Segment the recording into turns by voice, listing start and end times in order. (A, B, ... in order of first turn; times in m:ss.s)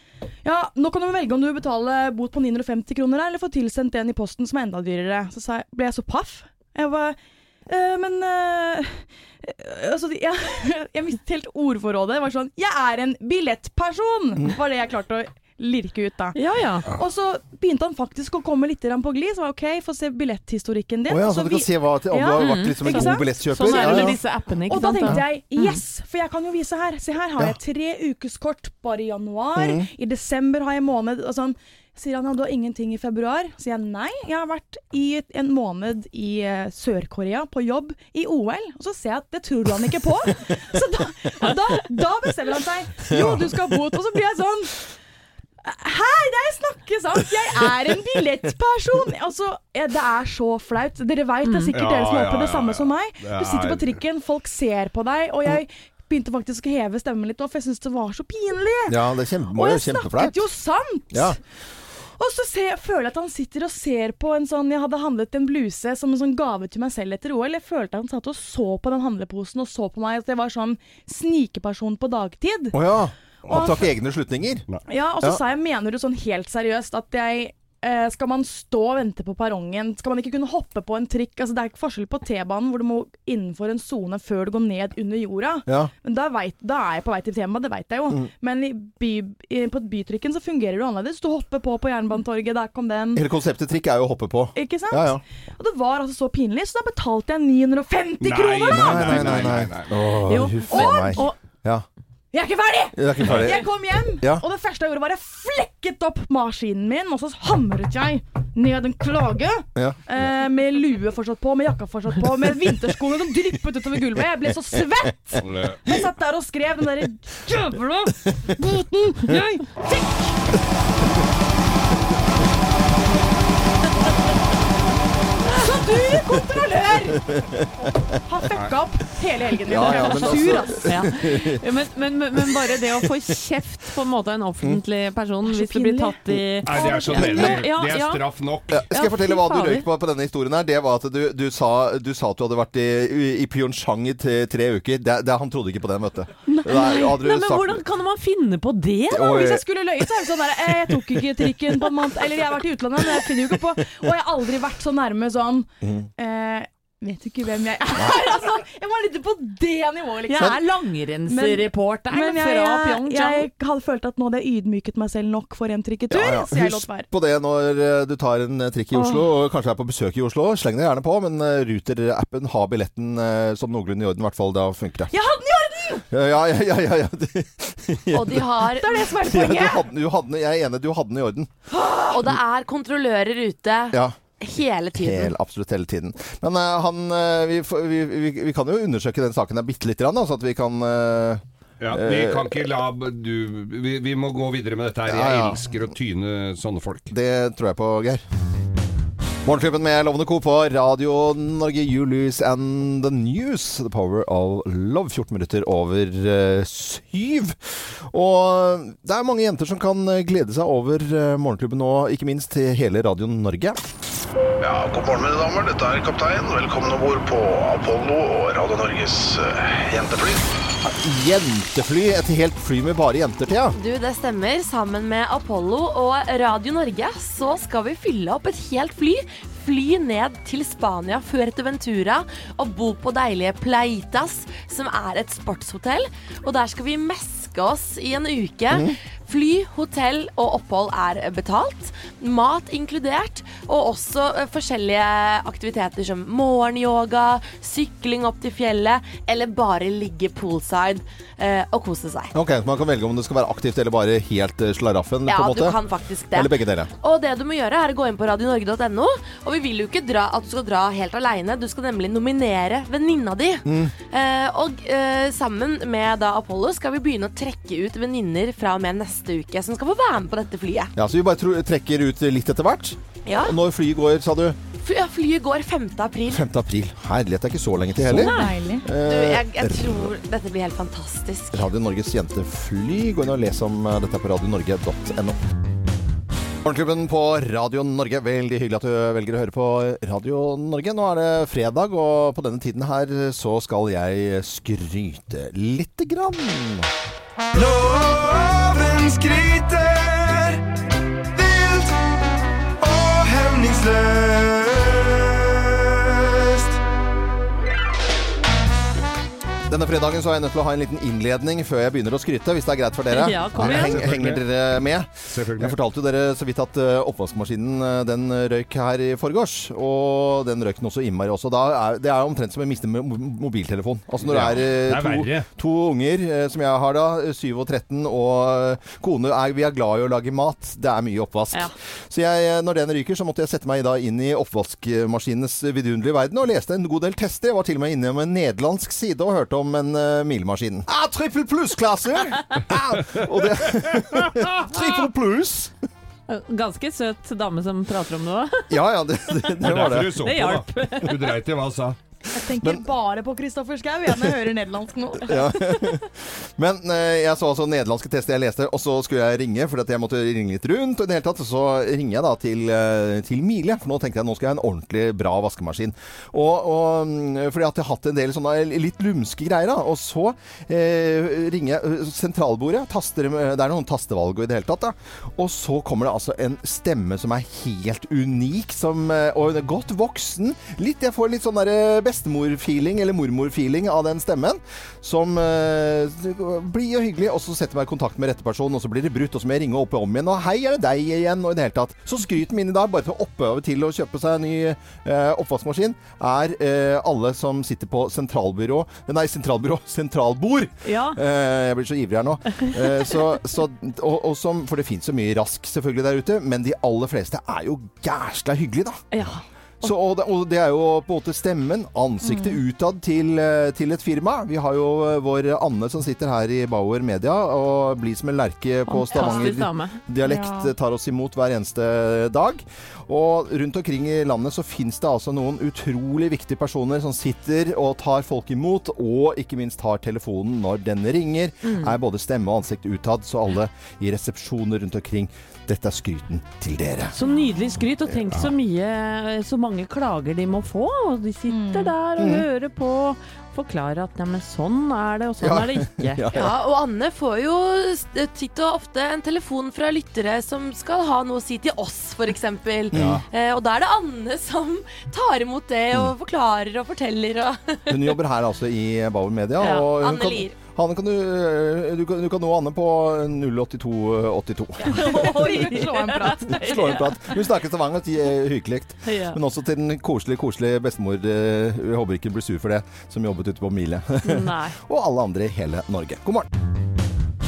0:00.4-0:16.4 A
0:16.3-0:16.9 B
0:16.9-0:44.8 A
0:21.1-0:24.2 C
0:22.4-0:25.8 B
0:29.6-0:29.9 C
0:43.1-0:43.4 C
0:45.6-0:59.0 A
0:51.4-0:51.8 B
0:51.7-0:54.0 D
0:58.9-1:00.3 C
0:59.5-1:01.4 A
1:01.1-1:01.4 C
1:02.2-1:12.8 A
1:12.7-1:14.6 C
1:13.4-1:13.7 D
1:13.5-1:13.8 A
1:14.9-1:33.2 A
1:33.1-1:35.2 C
1:34.5-1:39.5 A
1:38.2-1:40.1 D
1:38.7-1:41.8 C
1:40.3-1:41.4 A
1:40.3-1:41.3 B
1:42.3-2:00.3 A
1:42.9-1:43.6 C
1:43.2-1:43.5 D
1:55.4-1:55.8 D
2:05.5-2:07.3 A
2:07.3-2:07.7 C
2:08.2-2:10.9 A
2:09.7-2:11.6 C
2:09.8-2:18.2 B
2:15.4-2:17.4 A
2:16.6-2:18.8 D
2:17.2-2:17.4 C
2:18.7-2:27.8 C
2:18.9-2:19.9 B
2:26.5-2:29.3 B
2:26.5-2:27.1 A
2:29.1-2:29.6 C
2:29.2-2:40.6 A
2:35.8-2:36.1 C
2:40.3-2:43.5 B
2:41.3-2:47.1 A
2:46.1-2:55.1 C
2:55.1-2:56.0 A
2:56.1-3:01.5 C
2:58.1-2:59.1 E
2:58.8-2:59.8 A
3:02.1-3:05.3 E
3:04.9-3:12.6 C
3:11.8-3:17.1 D
3:15.0-3:15.6 C
3:17.1-3:18.2 C
3:19.4-3:33.8 C
3:34.6-3:40.5 F
3:40.8-3:43.8 C
3:43.7-4:12.3 E
4:12.3-4:15.8 C
4:15.3-4:30.9 E
4:16.3-4:16.9 C
4:23.6-4:23.9 C
4:31.0-4:34.6 C
4:33.2-4:33.6 E
4:34.8-4:36.4 E
4:36.3-4:40.1 C
4:38.0-4:41.7 E
4:38.2-4:38.9 A
4:41.5-4:45.4 C
4:46.6-4:56.9 C
4:57.5-5:00.6 G
5:01.3-5:02.1 G
5:02.8-5:05.1 G
5:05.9-5:06.8 G
5:09.7-5:45.7 C
5:13.1-5:14.0 B
5:13.6-5:14.4 D
5:15.2-5:15.8 D
5:24.2-5:25.5 D
5:43.2-5:44.5 D
5:46.3-5:48.8 B
5:48.7-5:50.1 C
5:49.6-5:52.0 D
5:50.1-5:51.2 B
5:52.3-5:55.4 A
5:55.2-6:49.3 C
6:40.8-6:41.2 B
6:42.6-6:43.3 B
6:49.1-6:49.9 B
6:49.8-7:17.1 C
6:52.2-6:52.6 A
6:58.9-7:00.0 B
7:00.2-7:00.7 A
7:11.6-7:12.0 B
7:17.1-7:26.3 B
7:21.5-7:21.9 A
7:22.2-7:22.4 C
7:25.4-7:26.5 C
7:26.3-7:38.2 E
7:32.9-7:33.2 C
7:32.9-7:33.2 D
7:37.9-7:45.0 C
7:39.6-7:40.6 E
7:44.9-7:47.4 B
7:44.9-7:46.9 A
7:46.5-7:56.5 C
7:49.0-7:49.4 B
7:54.2-7:54.8 B